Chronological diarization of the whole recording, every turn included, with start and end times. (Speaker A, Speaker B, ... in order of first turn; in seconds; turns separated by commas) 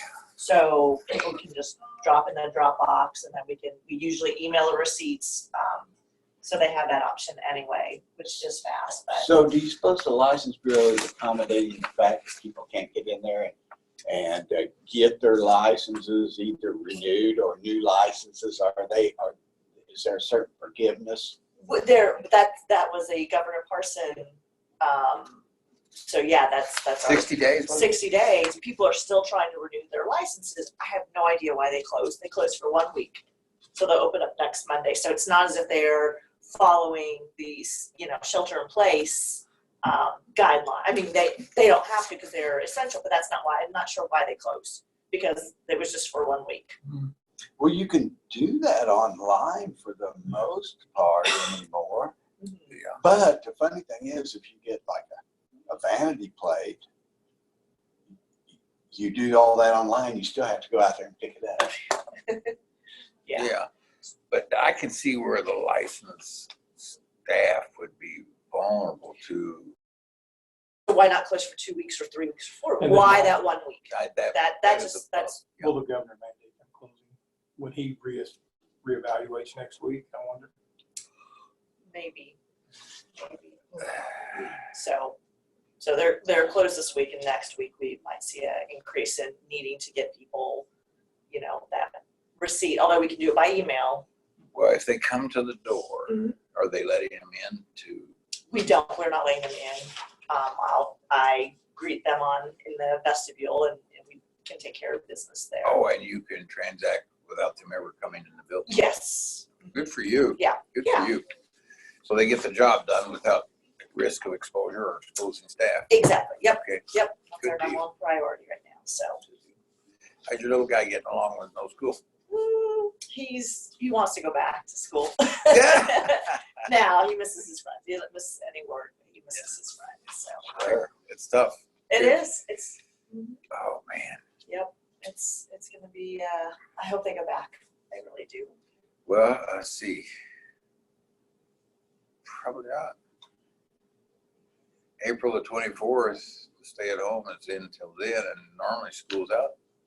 Speaker A: 0.4-5.9, Speaker A: 6.4-9.3, Speaker B: 9.1-13.5, Speaker B: 14.1-21.4, Speaker A: 21.6-25.4, Speaker A: 25.9-33.2, Speaker C: 27.0-28.0, Speaker A: 33.7-46.8, Speaker B: 47.6-52.1, Speaker A: 52.4-52.7, Speaker C: 52.7-53.0, Speaker B: 53.0-56.8, Speaker B: 58.5-61.8, Speaker A: 62.3-62.5, Speaker C: 63.3-63.7, Speaker C: 64.3-69.7, Speaker A: 70.9-75.5, Speaker D: 72.8-73.4, Speaker C: 73.9-75.8, Speaker D: 75.5-80.5, Speaker A: 81.9-82.4, Speaker A: 83.2-85.2, Speaker A: 85.8-90.7, Speaker A: 91.3-94.0, Speaker C: 94.5-98.1, Speaker A: 96.1-96.3, Speaker A: 98.5-105.8, Speaker C: 105.6-108.8, Speaker A: 108.7-109.5, Speaker C: 109.6-111.2, Speaker A: 110.4-111.1, Speaker C: 112.0-116.0, Speaker A: 115.9-119.2, Speaker C: 116.6-117.8, Speaker C: 119.2-119.5, Speaker C: 120.2-122.0, Speaker A: 122.3-130.8, Speaker C: 125.5-126.4, Speaker C: 130.5-132.2, Speaker A: 131.9-133.4, Speaker C: 133.5-134.2, Speaker A: 134.4-138.5, Speaker C: 139.1-140.1, Speaker C: 142.2-142.9, Speaker C: 145.0-149.5